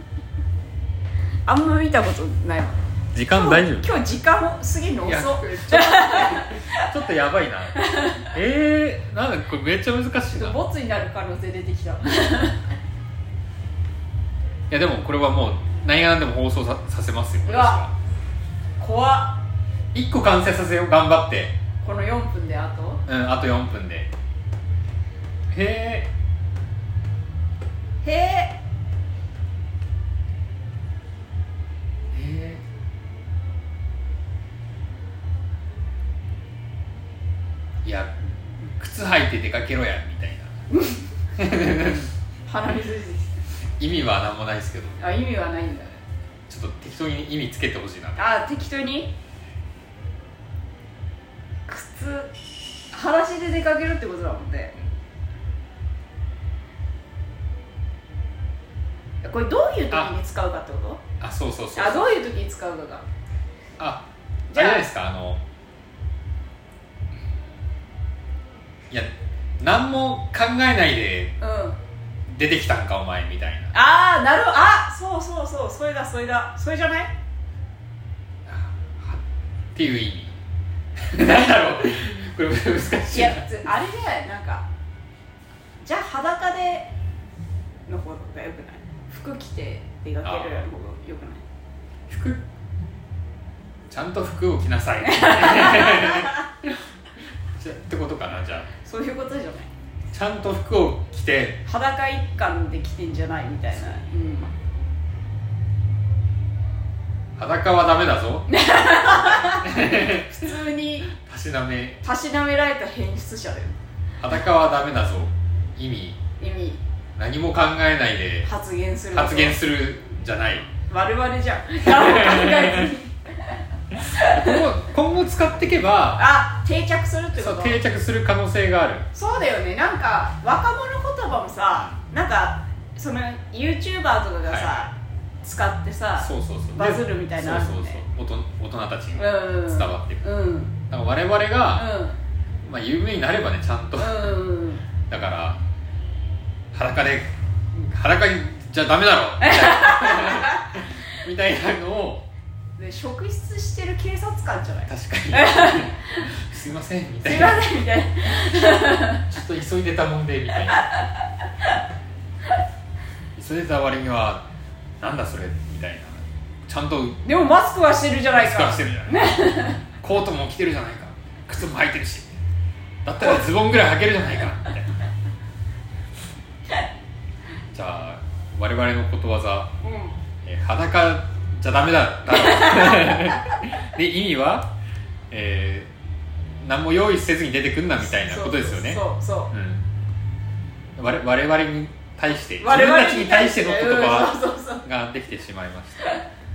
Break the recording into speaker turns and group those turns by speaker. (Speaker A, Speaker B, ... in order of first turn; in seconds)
Speaker A: 1.5-6.8, 7.8-8.3, 10.3-12.7, 17.4-17.8, 18.8-19.4, 21.8-23.0, 28.0-28.6, 40.7-41.0, 42.5-43.4, 45.0-46.0, 48.2-49.1, 51.7-52.3, 52.9-54.8, 59.2-61.0, 61.8-63.0, 64.5-64.9, 71.4-71.8, 73.7-77.1, 83.1-84.7, 85.8-86.9, 87.9-91.4, 95.0-96.3, 98.8-99.7, 101.7-104.5, 108.5-111.1, 112.0-113.7, 116.4-116.8, 118.4-119.6, 120.9-123.1, 124.0-124.5, 126.2-127.8, 129.1-138.0, 139.2-140.8, 141.8-142.2, 144.0-144.8, 149.4-150.7, 152.8-156.2, 157.2-159.2, 167.2-169.8, 179.8-180.2, 182.3-183.4, 188.2-189.5, 192.6-194.8
Speaker B: 3.1-3.9, 5.0-10.6, 14.7-17.9, 19.9-21.6, 23.1-24.1, 25.5-26.1, 32.1-32.6, 37.9-40.5, 41.4-42.1, 43.8-45.2, 46.5-48.4, 61.2-62.1, 63.8-65.4, 68.9-71.4, 72.3-73.7, 78.5-79.2, 79.7-80.4, 81.0-83.5, 90.2-90.7, 92.1-92.4, 93.9-96.8, 97.5-98.7, 100.1-101.6, 107.4-108.5, 109.6-110.5, 111.1-112.0, 114.2-116.2, 117.2-118.5, 119.1-120.7, 121.8-122.9, 124.2-126.3, 127.3-129.1, 134.5-134.9, 136.2-140.3, 140.9-141.9, 142.6-144.4, 145.1-145.6, 146.7-152.3, 154.9-157.7, 159.3-160.9, 163.4-164.5, 165.0-167.2, 168.3-172.3, 173.1-174.9, 177.7-179.8, 180.4-184.7, 185.3-185.9, 186.6-189.9, 191.0-196.1